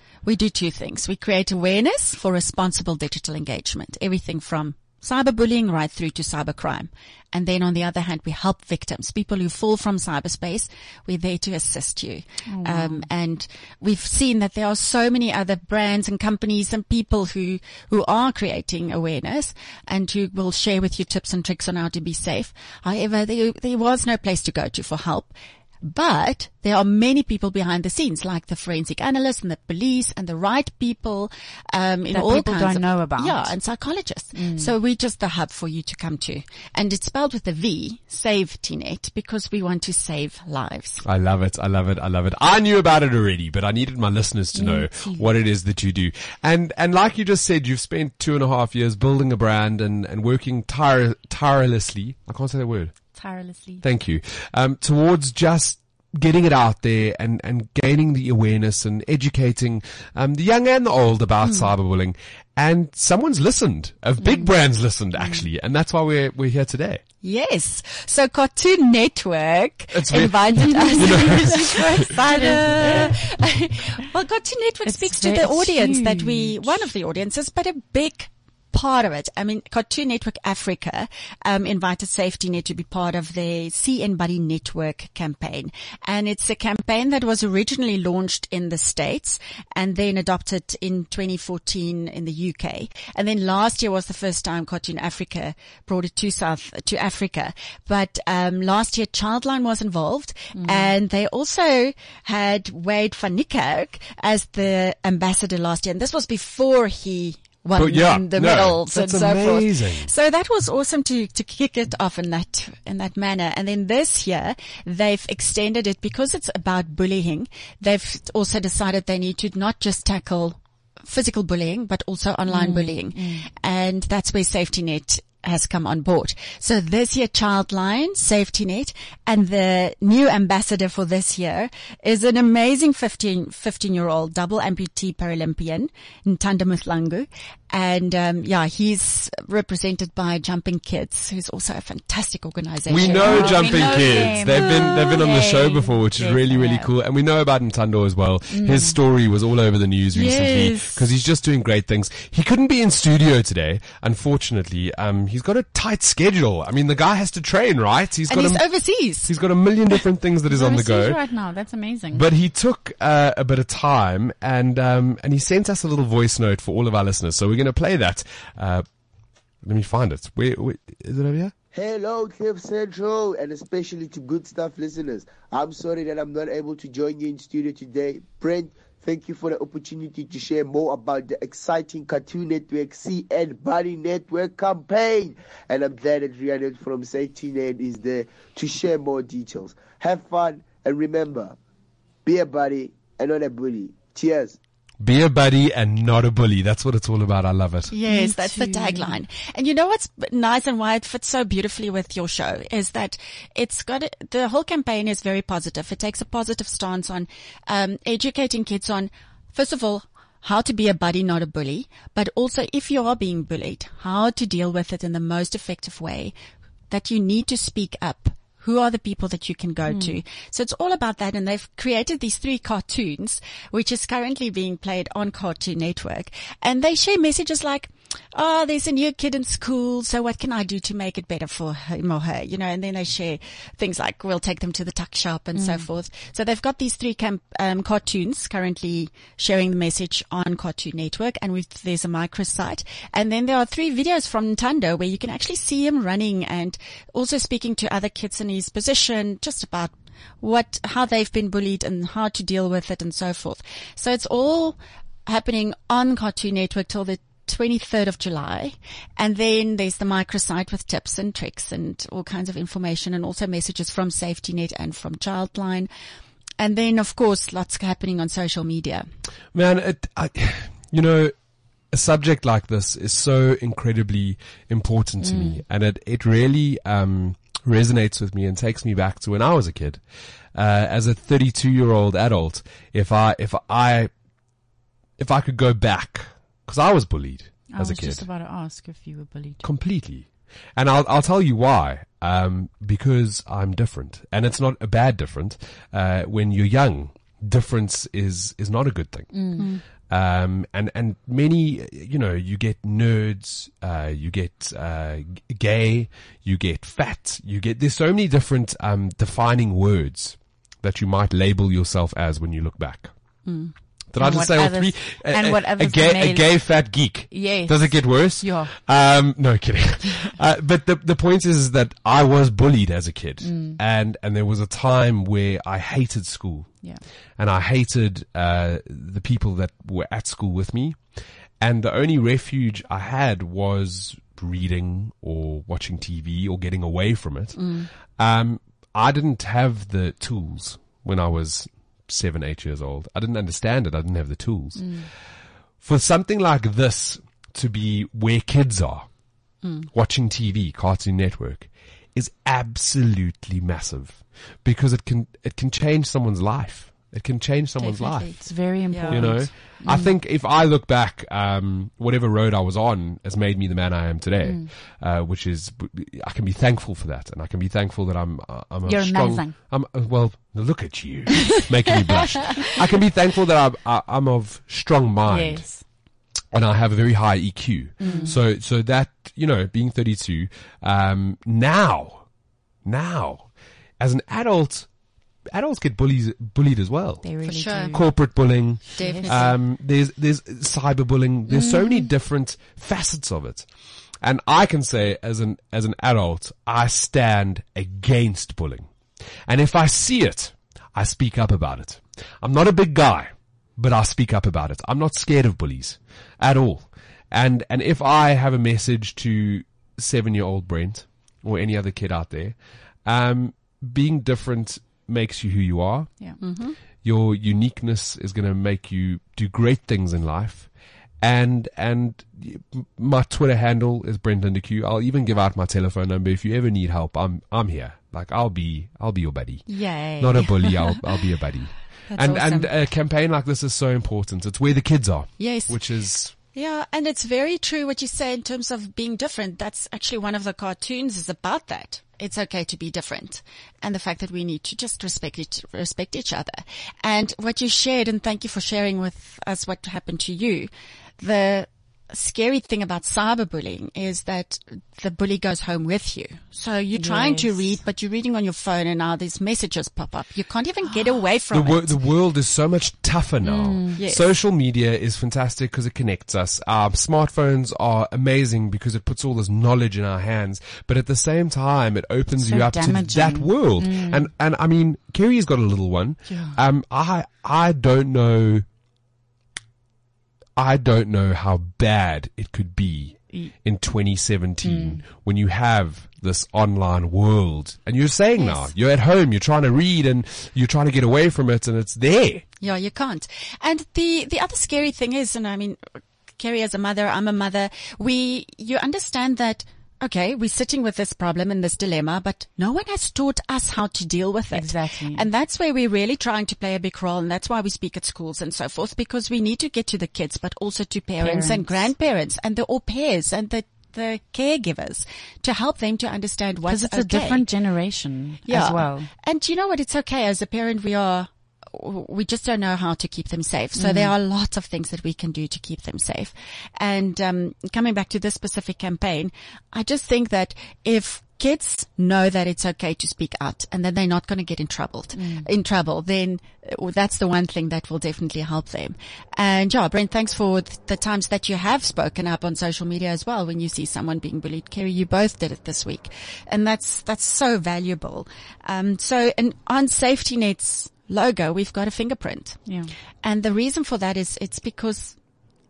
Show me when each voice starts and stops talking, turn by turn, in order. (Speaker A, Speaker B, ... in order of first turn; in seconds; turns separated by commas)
Speaker A: 0.2-41.0, Speaker B: 12.5-13.1, Speaker B: 32.1-33.5, Speaker B: 34.3-34.7, Speaker C: 41.0-52.9, Speaker B: 44.5-45.3, Speaker B: 53.1-53.8, Speaker C: 53.8-67.0, Speaker B: 64.2-64.5, Speaker A: 67.2-145.2, Speaker C: 69.9-72.5, Speaker B: 70.6-73.2, Speaker B: 74.8-76.8, Speaker B: 100.5-100.9, Speaker C: 107.8-110.1, Speaker B: 122.5-123.5, Speaker C: 142.9-158.6, Speaker B: 143.0-146.9, Speaker B: 148.5-149.0, Speaker A: 150.1-151.0, Speaker A: 158.3-159.3, Speaker C: 159.2-161.2, Speaker B: 160.5-162.2, Speaker C: 162.1-168.8, Speaker C: 169.6-171.5, Speaker D: 171.7-191.6, Speaker D: 192.2-194.6, Speaker C: 195.0-197.9, Speaker A: 197.9-216.3, Speaker B: 198.1-199.2, Speaker A: 216.9-265.9, Speaker B: 219.9-220.2, Speaker B: 235.5-235.8, Speaker A: 266.6-269.1, Speaker C: 269.5-271.3, Speaker C: 271.9-280.0, Speaker B: 275.2-275.6, Speaker C: 280.5-284.1, Speaker C: 285.2-288.2, Speaker B: 287.7-289.6, Speaker C: 289.6-299.3, Speaker B: 299.3-299.7, Speaker A: 299.6-299.8, Speaker C: 300.1-313.1, Speaker A: 313.5-313.7, Speaker C: 314.1-326.7, Speaker B: 314.2-316.5, Speaker B: 317.3-318.7, Speaker B: 323.4-323.8, Speaker C: 327.4-331.0, Speaker C: 331.6-345.1, Speaker A: 337.6-337.9, Speaker B: 344.8-345.1, Speaker C: 345.8-349.1, Speaker C: 349.9-358.3, Speaker A: 357.8-359.4, Speaker B: 358.4-360.1, Speaker C: 359.1-375.7, Speaker B: 364.4-364.7, Speaker B: 368.8-369.5, Speaker B: 375.3-375.8, Speaker C: 376.5-382.2, Speaker B: 378.0-378.4, Speaker C: 382.8-383.5, Speaker C: 384.0-384.9, Speaker C: 385.5-387.2, Speaker B: 387.2-388.1, Speaker A: 387.4-387.9, Speaker C: 387.9-393.7, Speaker A: 388.9-389.5, Speaker B: 388.9-389.5, Speaker B: 391.5-392.1, Speaker C: 394.2-398.9, Speaker C: 399.5-416.1, Speaker A: 416.4-416.8, Speaker C: 417.0-420.7, Speaker C: 421.2-429.7, Speaker A: 429.7-431.0, Speaker C: 430.2-436.3, Speaker A: 432.1-432.7, Speaker A: 435.4-435.8, Speaker A: 436.5-462.0, Speaker B: 456.9-457.6, Speaker C: 461.5-478.6, Speaker B: 463.4-464.0, Speaker A: 464.0-464.2, Speaker B: 472.4-474.3, Speaker B: 476.3-476.6, Speaker C: 480.6-492.4, Speaker B: 484.6-485.0, Speaker A: 492.6-495.8, Speaker A: 496.3-517.5, Speaker B: 504.5-505.3, Speaker B: 511.2-511.9, Speaker B: 516.7-519.1, Speaker A: 518.5-552.6, Speaker B: 523.8-524.1, Speaker B: 535.1-535.5, Speaker B: 552.6-552.9, Speaker A: 553.2-555.1